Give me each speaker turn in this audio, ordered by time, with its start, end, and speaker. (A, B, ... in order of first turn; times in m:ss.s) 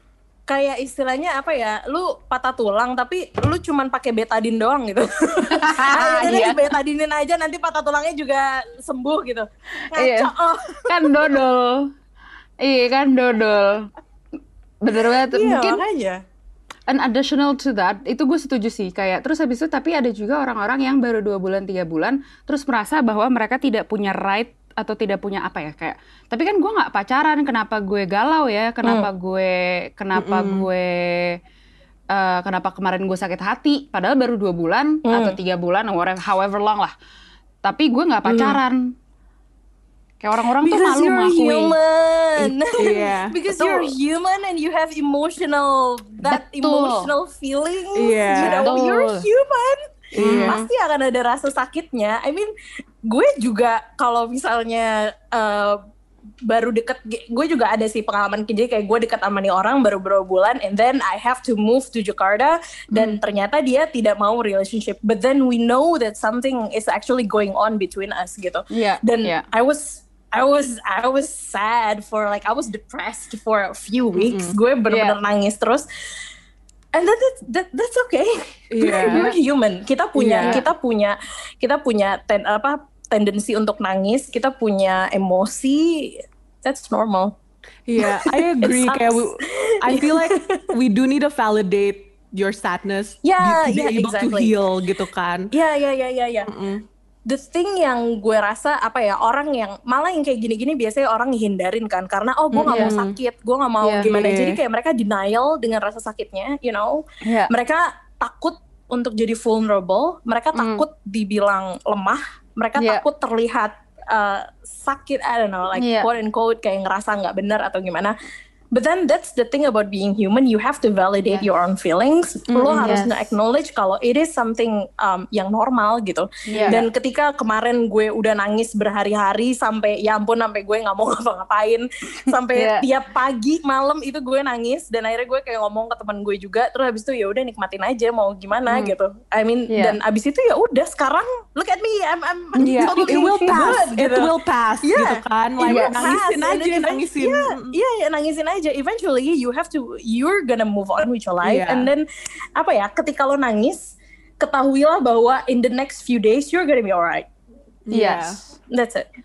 0:00.5-0:11.4 A
0:05.5-0:06.6 B
0:09.9-0:10.3 B
0:10.9-0:11.9 B
0:12.6-0:13.9 B
0:14.8-0:15.8 B
0:14.9-0:16.2 A
0:16.9-0:31.4 B
0:30.2-0:30.7 C
0:32.1-0:36.9 B
0:35.1-0:35.4 A
0:37.6-0:38.9 B
0:38.3-0:38.6 A
0:40.2-0:41.8 B
0:40.6-0:52.5 A
0:42.8-0:43.4 C
0:43.5-0:43.9 B
0:46.2-0:47.1 B
0:48.0-0:48.7 C
0:48.4-0:49.3 B
0:50.1-0:50.6 C
0:50.2-0:50.6 B
0:53.1-0:55.8 A
0:56.5-1:15.9 A
1:02.9-1:03.2 B
1:08.7-1:09.4 B
1:14.1-1:14.6 C
1:14.9-1:15.2 B
1:17.0-1:27.3 A
1:18.7-1:19.3 C
1:18.9-1:19.4 B
1:20.2-1:20.6 C
1:27.9-1:35.5 C
1:28.0-1:30.7 A
1:33.2-1:34.5 A
1:35.5-1:36.5 A
1:36.5-1:36.8 C
1:37.3-1:58.2 A
1:42.5-1:43.1 C
1:42.7-1:43.0 B
1:43.8-1:44.2 B
1:44.1-1:44.6 C
1:47.2-1:47.5 B
1:50.5-1:50.8 B
1:52.8-1:53.0 B
1:55.8-1:56.1 B
1:58.7-2:24.3 A
2:02.5-2:03.0 C
2:02.6-2:03.3 B
2:06.5-2:06.8 B
2:06.5-2:06.8 C
2:12.5-2:12.9 B
2:18.7-2:19.0 B
2:19.7-2:20.0 B
2:22.6-2:23.6 B
2:22.6-2:27.7 C
2:24.8-2:37.3 A
2:25.7-2:26.2 B
2:31.4-2:31.9 C
2:37.9-2:38.4 C
2:37.9-2:38.6 B
2:38.7-2:39.1 A